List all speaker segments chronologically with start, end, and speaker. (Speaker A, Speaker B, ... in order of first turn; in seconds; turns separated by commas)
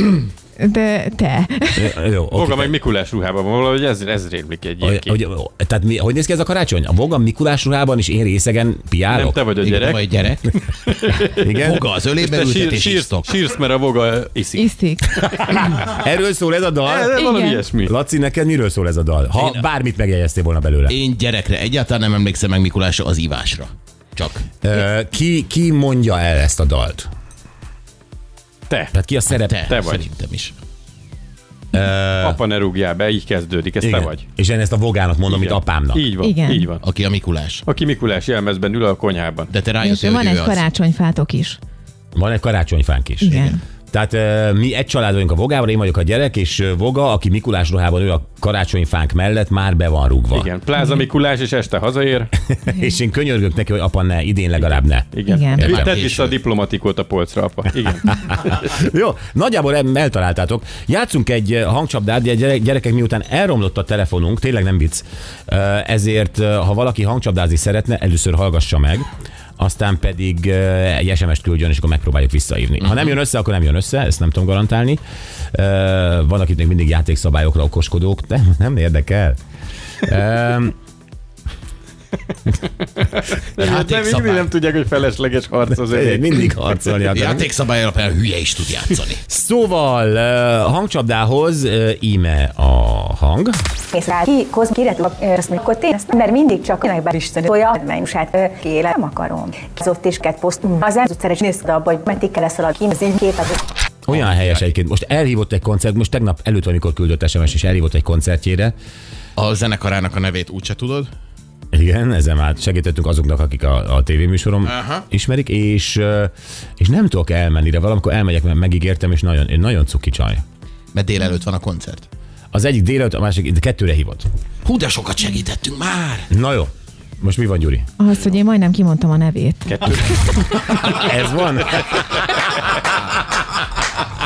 Speaker A: 0.6-1.9, Speaker B: 1.8-2.7, Speaker C: 2.3-5.2, Speaker B: 4.8-9.4, Speaker C: 9.1-11.4, Speaker D: 9.6-10.5, Speaker B: 11.4-11.8, Speaker D: 11.6-13.4, Speaker C: 12.1-14.7, Speaker A: 14.6-15.1, Speaker C: 15.4-15.8, Speaker B: 15.7-17.1, Speaker C: 16.9-17.9, Speaker A: 17.1-17.7, Speaker B: 17.8-21.0, Speaker D: 19.3-19.6, Speaker D: 20.9-24.5, Speaker B: 24.6-27.1, Speaker C: 28.7-29.0, Speaker B: 28.9-29.6, Speaker D: 29.3-30.6, Speaker C: 29.7-30.1, Speaker B: 31.7-32.4, Speaker C: 32.2-34.2, Speaker B: 33.8-36.1, Speaker C: 35.3-36.8, Speaker A: 36.2-36.7, Speaker D: 36.8-37.6, Speaker C: 37.6-39.5, Speaker D: 39.5-40.6, Speaker A: 39.8-41.6, Speaker B: 42.1-50.5, Speaker A: 43.2-43.6, Speaker D: 43.3-43.6, Speaker C: 50.3-52.3, Speaker A: 50.8-51.0, Speaker B: 52.6-56.0, Speaker C: 54.6-58.5, Speaker A: 55.3-55.8, Speaker D: 55.6-56.4, Speaker B: 58.1-69.1, Speaker B: 69.6-75.0, Speaker B: 75.5-79.4, Speaker B: 80.0-80.8, Speaker C: 83.0-86.6, Speaker D: 83.6-84.5, Speaker B: 85.8-87.5, Speaker D: 87.1-89.2, Speaker B: 89.3-93.6, Speaker E: 93.9-103.6, Speaker B: 104.1-108.8, Speaker D: 104.1-104.7, Speaker D: 109.4-111.1, Speaker B: 111.7-120.4, Speaker D: 114.7-115.0, Speaker D: 120.9-122.1, Speaker B: 122.5-124.2, Speaker D: 124.7-126.3, Speaker B: 126.3-127.9, Speaker A: 128.0-130.3, Speaker C: 129.7-131.1, Speaker B: 130.8-132.5